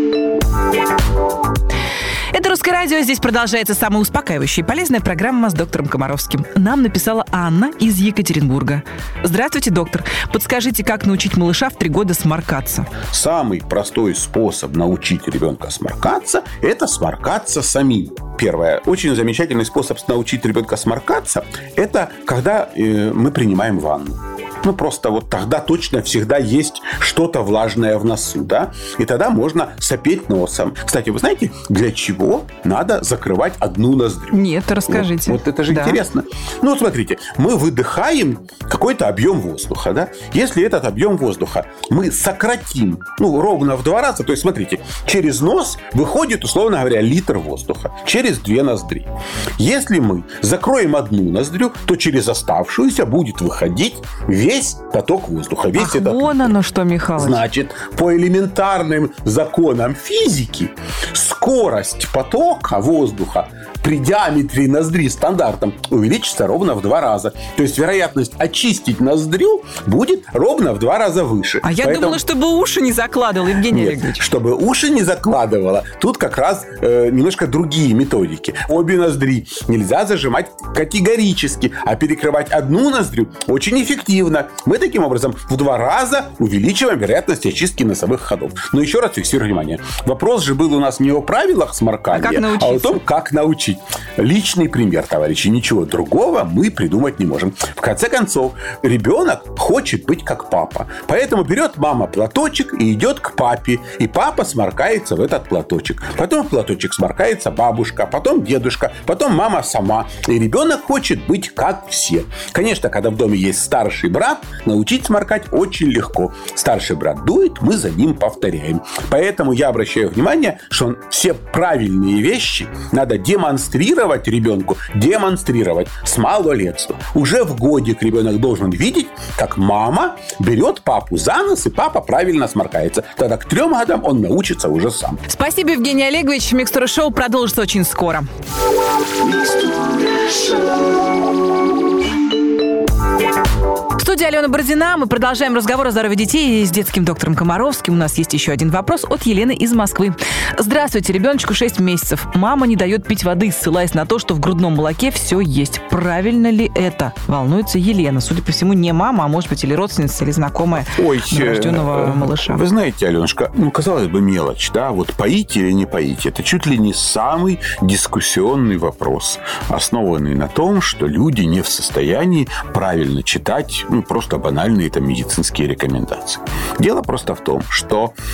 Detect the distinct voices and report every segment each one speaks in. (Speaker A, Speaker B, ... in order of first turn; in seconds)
Speaker A: 2.3-12.9, 34.3-36.0, 55.8-57.4, 71.6-74.2, 92.1-93.0, 135.3-138.3, 144.0-162.6
Speaker B: 13.1-56.6, 57.2-72.2, 73.7-135.2, 160.8-178.1